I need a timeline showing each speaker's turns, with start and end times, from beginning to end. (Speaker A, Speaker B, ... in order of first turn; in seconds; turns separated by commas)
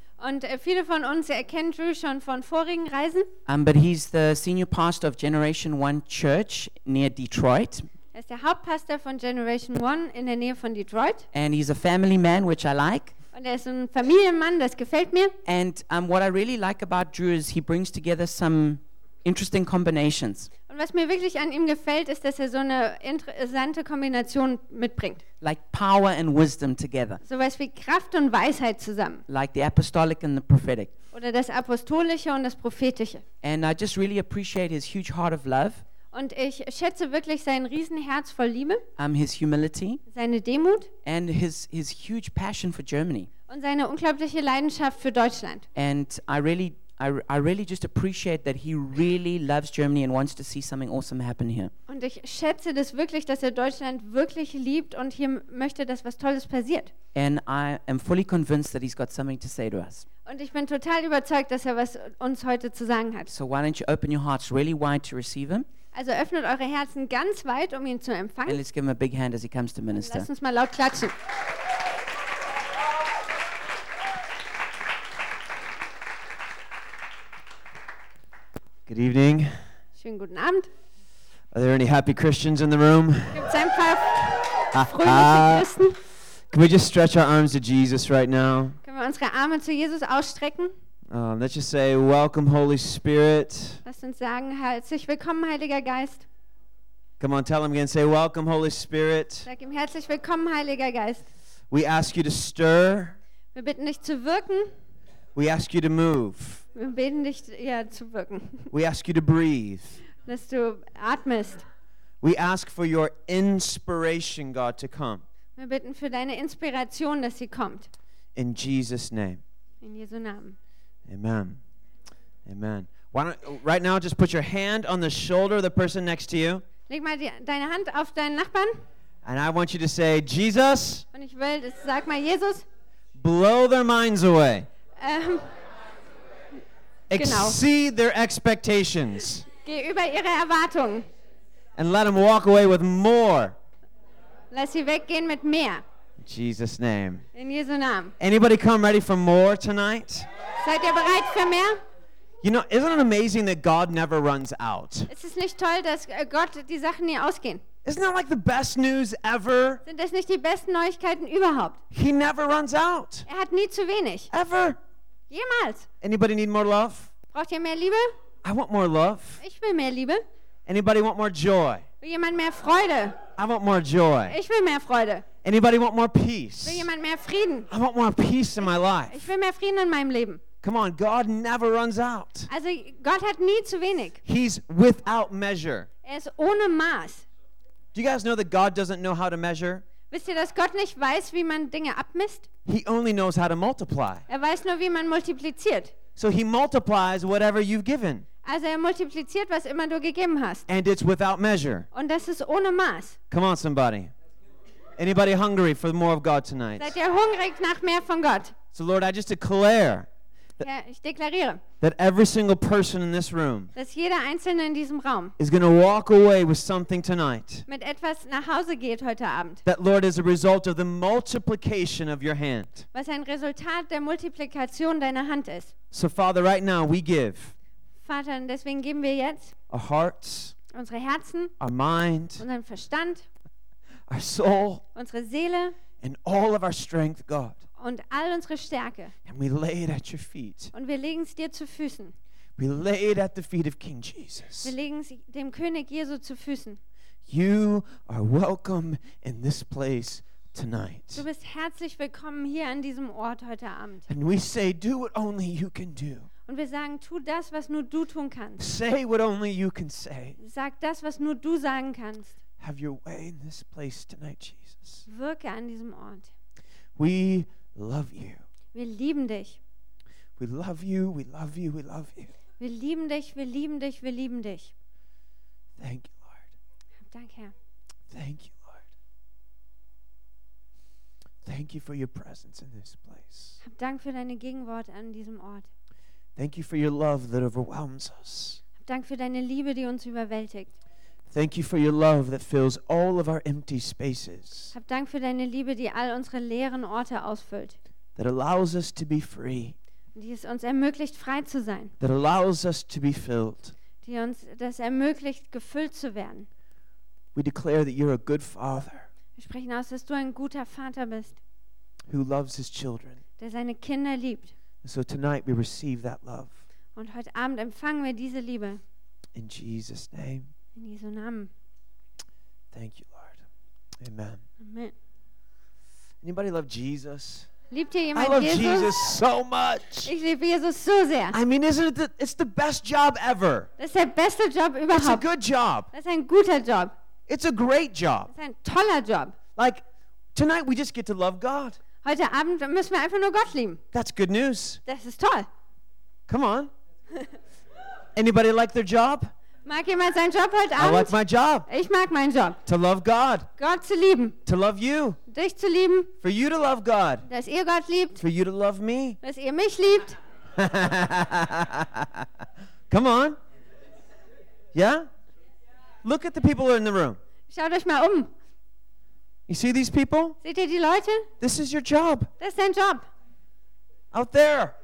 Speaker A: 0.2-3.3, Speaker B: 3.5-7.9, Speaker A: 8.1-11.2, Speaker B: 11.3-13.1, Speaker A: 13.3-15.3, Speaker B: 15.4-20.5, Speaker A: 20.7-25.2, Speaker B: 25.4-27.2, Speaker A: 27.2-29.2, Speaker B: 29.3-30.9, Speaker A: 31.1-33.2, Speaker B: 33.4-35.8, Speaker A: 36.1-38.8, Speaker B: 39.0-40.0, Speaker A: 40.1-40.9, Speaker B: 41.0-43.3, Speaker A: 43.5-45.6, Speaker B: 45.7-51.7, Speaker A: 51.9-56.9, Speaker B: 57.1-60.0, Speaker A: 60.2-63.3, Speaker B: 63.3-65.7, Speaker A: 65.9-68.6, Speaker B: 68.5-70.3, Speaker A: 69.9-71.1, Speaker C: 78.9-79.5, Speaker A: 80.0-80.7, Speaker C: 81.5-83.5, Speaker A: 83.3-86.0, Speaker C: 84.7-85.7, Speaker C: 86.5-88.8, Speaker A: 88.8-90.7, Speaker C: 91.1-93.8, Speaker A: 93.8-96.2, Speaker C: 97.2-99.5, Speaker A: 99.5-101.2, Speaker C: 101.7-103.2, Speaker A: 103.5-104.7, Speaker C: 105.3-106.6, Speaker A: 106.7-108.7, Speaker C: 108.7-110.0, Speaker A: 110.2-111.6, Speaker C: 112.2-115.2, Speaker A: 115.6-117.9, Speaker C: 118.3-119.4, Speaker A: 119.8-120.5, Speaker C: 121.1-121.6, Speaker C: 122.5-126.6, Speaker A: 126.9-128.8, Speaker C: 129.2-131.0, Speaker A: 131.1-132.6, Speaker C: 133.2-134.7, Speaker A: 135.0-135.5, Speaker C: 137.1-139.5, Speaker A: 137.1-137.6, Speaker A: 139.6-141.1, Speaker C: 141.8-143.6, Speaker A: 144.5-145.8, Speaker C: 146.2-147.2, Speaker A: 147.3-148.1, Speaker C: 148.2-150.3, Speaker A: 150.6-151.8, Speaker C: 152.4-155.1, Speaker A: 155.1-157.6, Speaker C: 157.8-159.8, Speaker A: 159.8-161.8, Speaker C: 161.9-163.2, Speaker A: 163.3-164.3, Speaker C: 164.3-164.8, Speaker A: 165.3-165.9, Speaker C: 166.0-167.1, Speaker A: 167.3-168.1, Speaker C: 168.4-169.4, Speaker A: 169.4-170.2, Speaker C: 170.7-171.8, Speaker A: 172.0-173.2, Speaker C: 173.4-174.4, Speaker A: 174.3-175.2, Speaker C: 175.4-176.9, Speaker A: 176.6-177.7, Speaker C: 177.7-179.3, Speaker A: 179.1-180.4, Speaker C: 180.6-182.5, Speaker A: 182.5-184.2, Speaker C: 184.2-185.9, Speaker A: 186.0-187.2, Speaker C: 187.9-189.8, Speaker A: 190.1-192.5, Speaker C: 192.7-194.2, Speaker A: 194.3-195.9, Speaker C: 196.2-198.2, Speaker A: 198.4-200.7, Speaker C: 200.7-201.8, Speaker A: 201.9-203.2, Speaker C: 203.3-204.1, Speaker C: 205.0-206.9, Speaker A: 206.8-208.6, Speaker C: 208.7-210.1, Speaker A: 210.6-211.6, Speaker C: 211.8-213.7, Speaker A: 213.7-215.3, Speaker C: 215.4-217.6, Speaker A: 217.7-219.6, Speaker C: 219.6-222.8, Speaker A: 222.9-225.7, Speaker C: 225.9-227.5, Speaker A: 228.0-229.5, Speaker C: 229.7-230.5, Speaker A: 230.7-231.5, Speaker C: 231.6-232.4, Speaker A: 232.4-233.2, Speaker C: 234.1-234.8, Speaker A: 234.9-235.7, Speaker C: 236.0-237.6, Speaker A: 237.8-239.1, Speaker C: 239.2-240.7, Speaker A: 240.7-242.1, Speaker C: 242.6-244.7, Speaker A: 244.6-246.8, Speaker C: 247.3-251.2, Speaker A: 251.1-254.1, Speaker C: 254.1-256.3, Speaker A: 256.5-258.6, Speaker C: 258.6-260.4, Speaker A: 260.4-262.3, Speaker C: 262.6-265.1, Speaker A: 265.1-266.3, Speaker C: 267.0-268.4, Speaker A: 268.7-269.6, Speaker C: 270.4-272.3, Speaker A: 272.6-274.7, Speaker C: 275.8-276.4, Speaker A: 277.1-277.5, Speaker C: 278.1-278.8, Speaker C: 281.4-283.6, Speaker A: 283.6-285.7, Speaker C: 286.4-288.6, Speaker A: 288.8-290.7, Speaker C: 291.3-294.7, Speaker A: 294.7-297.8, Speaker C: 298.1-299.8, Speaker A: 300.1-301.9, Speaker C: 302.0-303.7, Speaker A: 304.0-306.5, Speaker C: 307.3-309.1, Speaker A: 309.4-311.4, Speaker C: 312.1-313.2, Speaker A: 313.4-314.5, Speaker C: 314.8-316.6, Speaker A: 316.9-318.8, Speaker C: 319.3-320.5, Speaker A: 320.8-321.5, Speaker C: 322.7-323.4, Speaker C: 324.0-324.4, Speaker A: 324.6-324.9, Speaker C: 326.2-327.5, Speaker A: 327.7-329.0, Speaker C: 328.1-330.1, Speaker A: 330.1-331.4, Speaker C: 331.3-333.7, Speaker A: 333.8-335.2, Speaker C: 334.9-335.9, Speaker A: 335.9-336.9, Speaker C: 337.3-338.3, Speaker A: 338.3-339.3, Speaker C: 339.6-339.8, Speaker C: 340.3-341.8, Speaker A: 342.0-343.8, Speaker C: 343.9-344.8, Speaker A: 344.9-345.5, Speaker C: 346.3-346.7, Speaker C: 348.1-349.3, Speaker A: 349.6-351.1, Speaker C: 350.8-351.7, Speaker A: 351.7-352.6, Speaker C: 352.6-353.5, Speaker A: 353.6-354.4, Speaker C: 354.4-355.2, Speaker A: 355.3-356.1, Speaker C: 356.2-357.2, Speaker A: 357.3-358.2, Speaker C: 358.2-359.2, Speaker A: 359.2-360.2, Speaker C: 360.6-362.3, Speaker C: 362.9-363.4, Speaker C: 364.7-365.1, Speaker C: 366.0-367.2, Speaker A: 367.5-368.3, Speaker C: 369.5-370.4, Speaker A: 370.4-371.3, Speaker C: 371.4-372.3, Speaker A: 372.4-373.1, Speaker C: 374.1-374.8